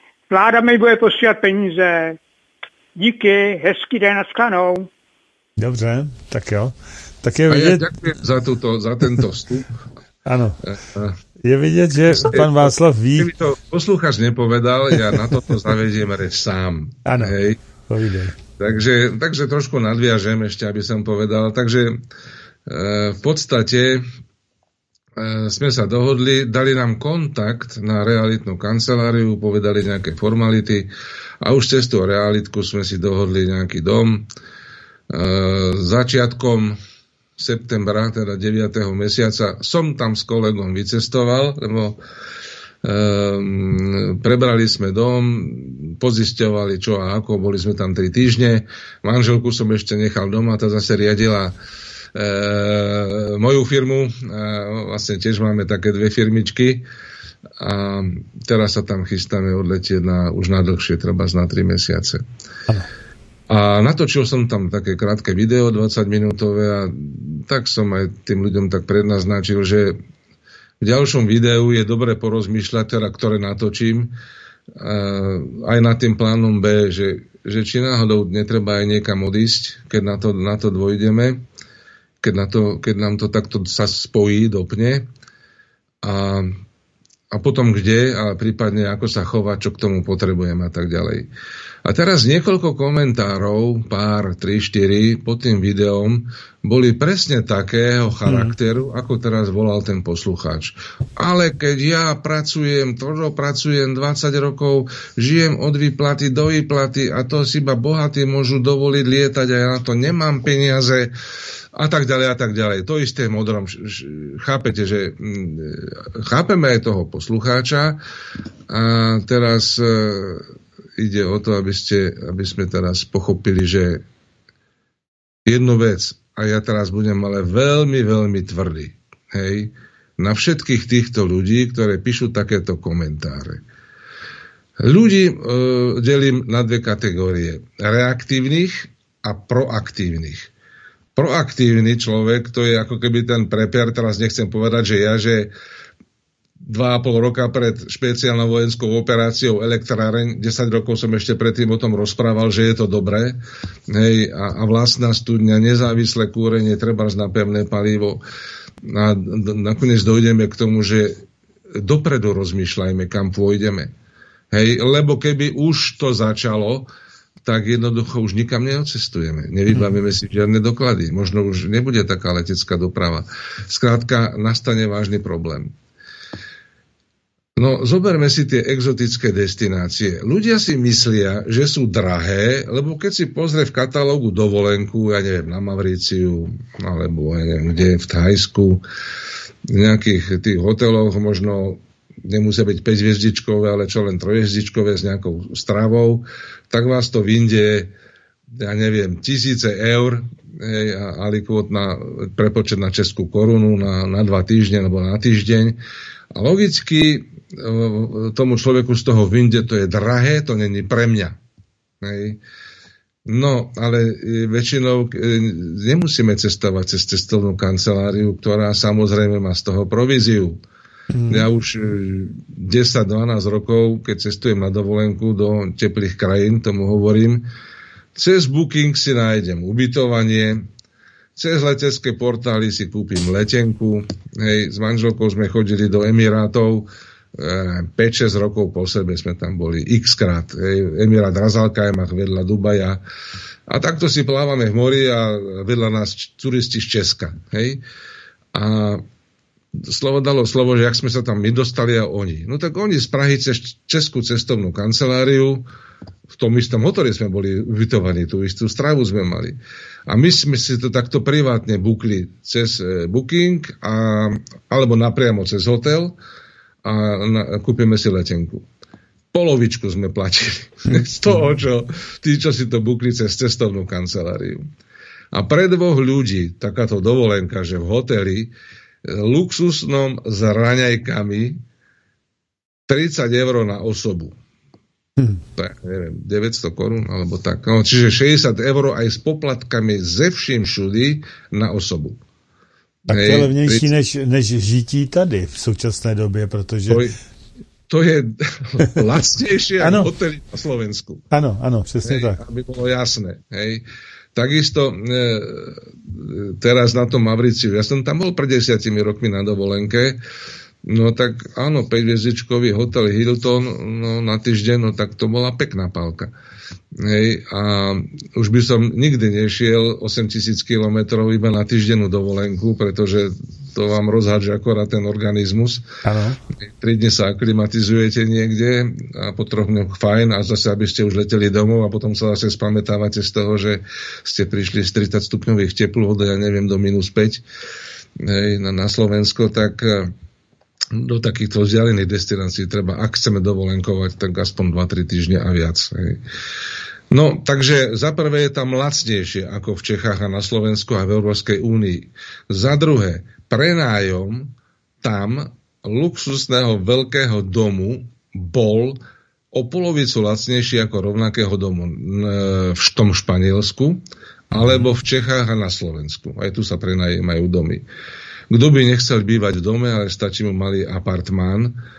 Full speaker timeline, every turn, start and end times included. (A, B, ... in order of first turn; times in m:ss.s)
0:00.3-0:02.2 A
0:02.9-0:04.9 A
0:05.6-0:07.8 B
0:07.5-0:09.8 C
0:10.2-0:10.6 B
0:10.7-0:11.1 C
0:11.4-0:13.3 B
0:12.1-0:17.6 C
0:17.0-0:17.4 B
0:17.9-0:18.4 B
0:18.6-0:22.0 C
0:22.6-0:24.0 C
0:25.2-0:30.9 C
0:31.4-0:34.3 C
0:35.1-0:36.8 C
0:37.4-0:42.0 C
0:42.8-0:51.6 C
0:52.1-0:56.8 C
0:57.6-1:02.2 C
1:03.5-1:09.9 C
1:10.8-1:14.1 C
1:14.7-1:21.4 C
1:22.2-1:25.0 C
1:26.0-1:26.6 C
1:27.3-1:31.3 C
1:31.8-1:51.1 C
1:38.2-1:38.5 B
1:51.7-1:58.0 C
1:58.7-2:00.4 C
2:01.0-2:04.0 C
2:05.4-2:13.6 C
2:14.8-2:20.5 C
2:21.2-2:25.5 C
2:26.6-2:38.2 C
2:38.8-2:41.1 C
2:41.7-2:43.9 C
2:44.5-2:46.9 C
2:47.4-2:55.7 C
2:57.6-3:08.8 C
3:09.7-3:17.9 C
3:18.5-3:25.8 C
3:26.3-3:31.4 C
3:32.0-3:32.4 C
3:33.2-3:40.6 C
3:41.1-3:41.5 B
3:41.3-3:47.4 C
3:48.1-3:50.7 C
3:51.4-4:03.0 C
4:03.7-4:07.8 C
4:08.5-4:09.0 C
4:09.7-4:15.6 C
4:16.3-4:26.2 C
4:26.8-4:28.6 C
4:29.3-4:34.6 C
4:35.3-4:38.5 C
4:39.0-4:41.6 C
4:42.9-4:44.4 C
4:45.6-4:52.2 C
4:53.1-4:57.0 B
4:53.1-4:53.9 C
4:56.9-4:57.2 C
4:57.9-5:01.2 C
4:59.8-5:00.1 B
5:01.3-5:02.4 B
5:02.0-5:03.8 C
5:04.3-5:10.2 C
5:10.8-5:16.3 C
5:17.0-5:25.8 C
5:26.0-5:26.4 B
5:26.5-5:37.4 C
5:38.2-5:40.1 C
5:40.9-5:46.2 C
5:47.1-5:59.0 C
5:59.5-6:07.8 C
6:04.5-6:04.9 B
6:08.5-6:11.8 C